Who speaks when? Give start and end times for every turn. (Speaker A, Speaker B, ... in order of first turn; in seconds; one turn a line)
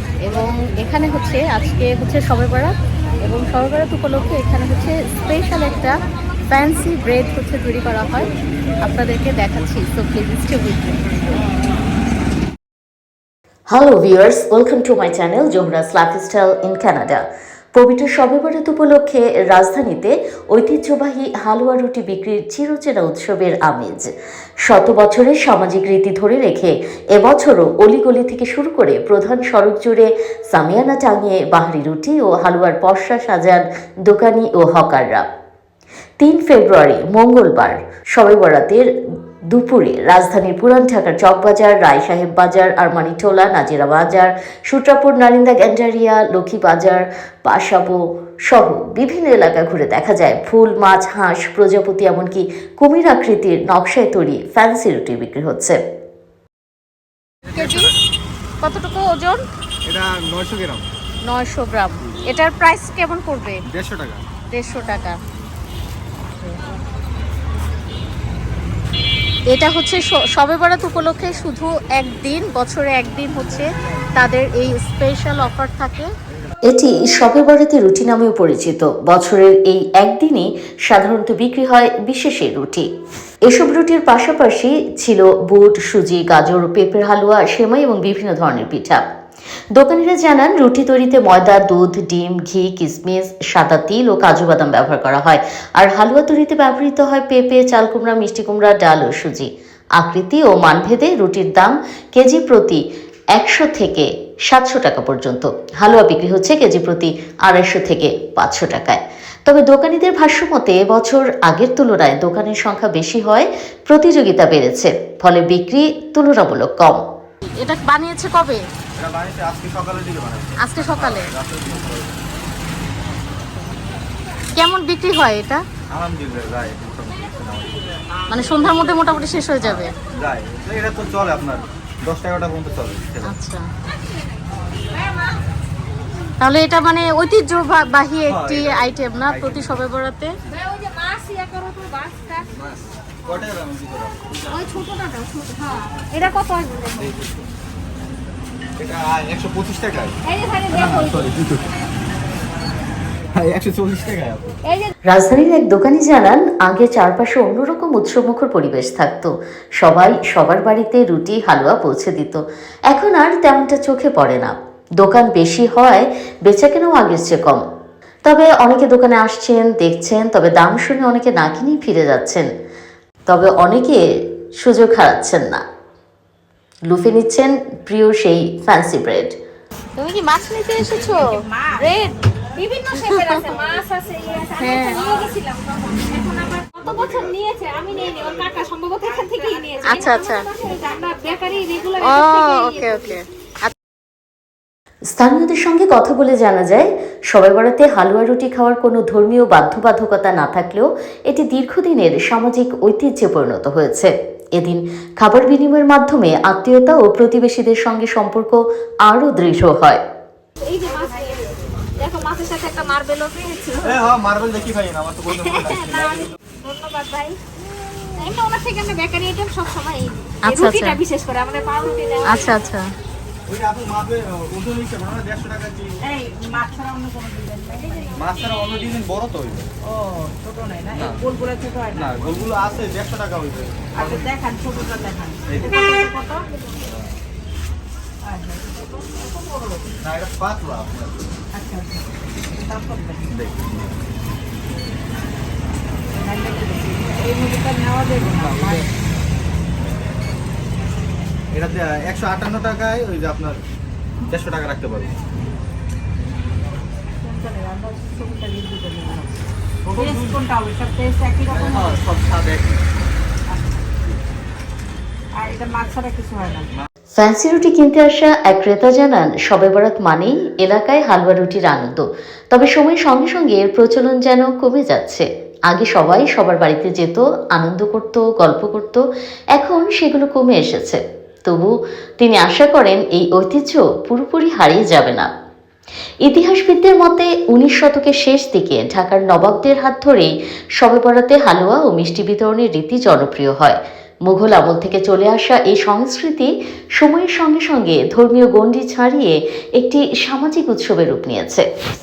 Speaker A: 0.3-2.7
Speaker A: 3.2-8.3
Speaker A: 8.8-11.4
Speaker B: 13.7-17.2
Speaker B: 17.7-24.1
Speaker B: 24.6-35.2
Speaker B: 36.2-38.9
Speaker B: 39.5-55.8
Speaker C: 57.5-58.0
Speaker A: 57.5-57.9
Speaker A: 58.6-59.4
Speaker C: 59.9-60.9
Speaker A: 61.3-63.6
Speaker C: 63.7-64.2
Speaker A: 64.5-65.2
Speaker A: 69.5-76.1
Speaker B: 76.7-82.9
Speaker B: 83.5-89.0
Speaker B: 89.7-102.8
Speaker B: 103.3-117.0
Speaker A: 117.6-118.6
Speaker C: 119.0-122.2
Speaker A: 120.6-121.3
Speaker A: 124.5-125.6
Speaker C: 125.9-127.8
Speaker A: 128.3-129.9
Speaker C: 129.6-133.3
Speaker A: 133.2-133.6
Speaker A: 136.4-140.3
Speaker C: 138.2-139.8
Speaker D: 140.6-142.4
Speaker C: 142.6-144.8
Speaker D: 144.5-147.1
Speaker C: 147.0-147.3
Speaker C: 148.8-150.2
Speaker D: 150.2-151.3
Speaker C: 150.7-151.7
Speaker C: 153.3-154.6
Speaker D: 154.7-154.9
Speaker B: 155.1-167.6
Speaker B: 168.2-172.5
Speaker B: 173.3-174.0
Speaker B: 174.6-175.6
Speaker B: 176.9-179.3
Speaker A: 180.0-182.2
Speaker D: 182.6-193.1
Speaker A: 183.0-183.3
Speaker A: 184.6-185.1
Speaker A: 189.9-190.4
Speaker A: 192.0-193.7
Speaker B: 195.1-210.0
Speaker D: 210.6-211.5
Speaker D: 212.0-214.0
Speaker C: 213.8-216.3
Speaker D: 215.4-217.4
Speaker D: 218.2-222.5
Speaker A: 220.4-221.0
Speaker A: 222.2-222.9
Speaker C: 223.5-225.9
Speaker E: 226.1-228.0
Speaker C: 228.1-229.7
Speaker E: 229.9-232.1
Speaker C: 230.9-231.2
Speaker C: 231.9-234.3
Speaker E: 234.0-236.4
Speaker C: 235.5-235.9
Speaker C: 236.8-237.1
Speaker E: 238.2-239.8
Speaker C: 240.0-241.2
Speaker E: 241.5-242.0
Speaker E: 242.5-243.3
Speaker C: 243.3-243.9
Speaker E: 246.2-248.8
Speaker C: 248.3-248.9
Speaker C: 251.5-253.6
Speaker C: 254.3-255.2
Speaker E: 257.2-259.3
Speaker C: 259.8-260.4
Speaker E: 260.0-262.0
Speaker C: 261.5-262.8
Speaker E: 265.4-266.7
Speaker B: 267.1-279.0
Speaker B: 279.6-285.3
Speaker B: 286.2-301.7